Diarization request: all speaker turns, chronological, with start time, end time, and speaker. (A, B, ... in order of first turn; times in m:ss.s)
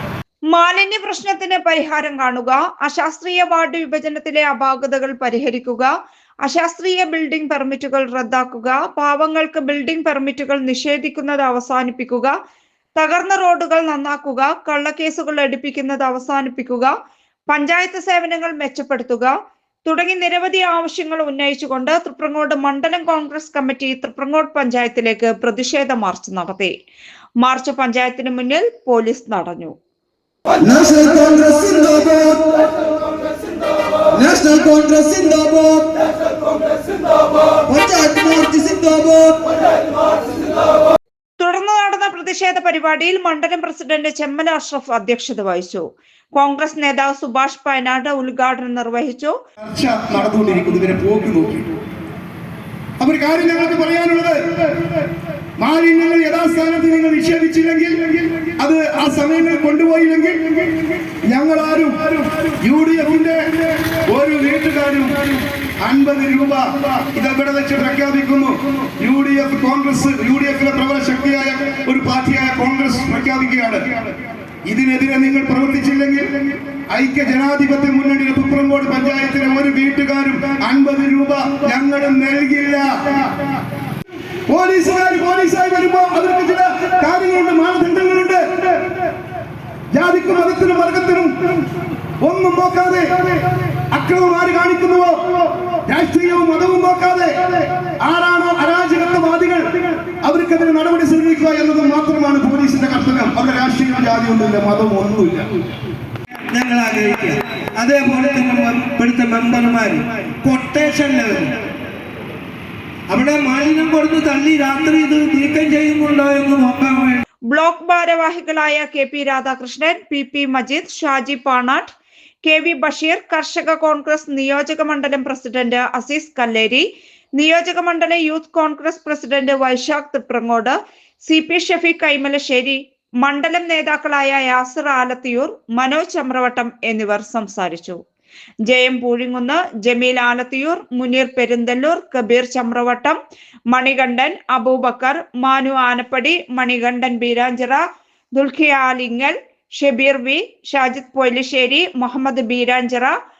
0:00.5-0:05.9 A
0:06.4-0:12.3 A
0:13.0-0:16.9 A
0:17.5-0:19.3 A
0:19.8-0:26.7 A
0:27.4-0:29.7 A
0:30.6-0:32.6 B
0:34.1-0:39.4 B
0:41.4-0:45.8 A
0:46.3-0:49.3 A
0:49.6-0:51.7 C
0:53.0-0:54.4 C
0:55.6-1:14.0 C
1:14.7-1:23.3 C
1:24.5-1:28.7 C
1:29.9-1:31.6 C
1:32.2-1:33.4 C
1:33.9-1:45.5 C
1:46.5-1:51.5 D
1:47.8-1:49.8 C
1:53.1-1:57.2 D
1:53.9-1:54.4 C
1:57.5-2:06.8 A
2:07.4-2:18.0 A
2:18.7-2:23.2 A
2:23.7-2:27.8 A
2:28.3-2:33.1 A